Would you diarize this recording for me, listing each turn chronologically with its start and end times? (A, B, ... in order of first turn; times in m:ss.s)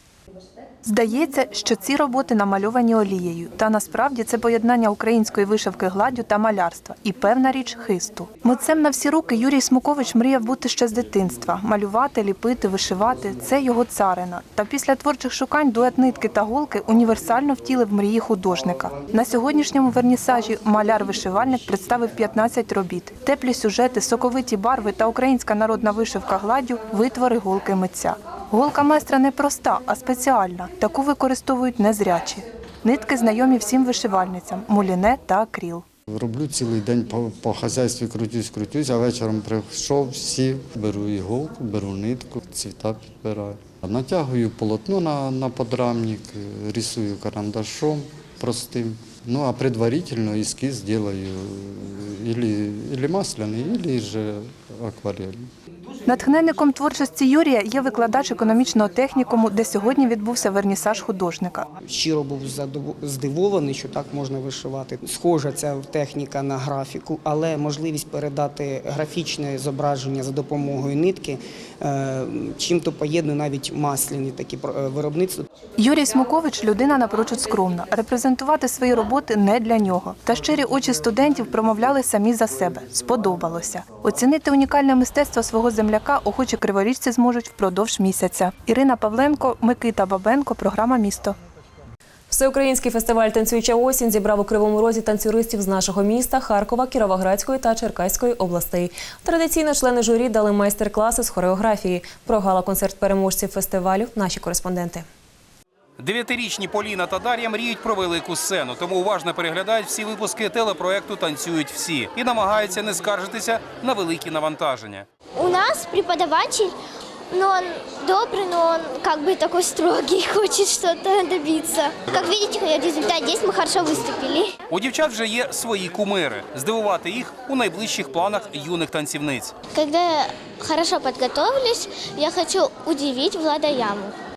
0:00.8-0:35.8 A
0:36.1-0:55.5 B
0:56.0-1:01.7 A
1:01.8-1:15.4 C
1:15.8-1:31.4 A
1:32.3-1:45.0 D
1:46.0-1:55.0 E
1:55.4-1:56.7 F
1:57.3-2:04.5 F
2:04.7-2:09.5 E
2:09.7-2:14.1 F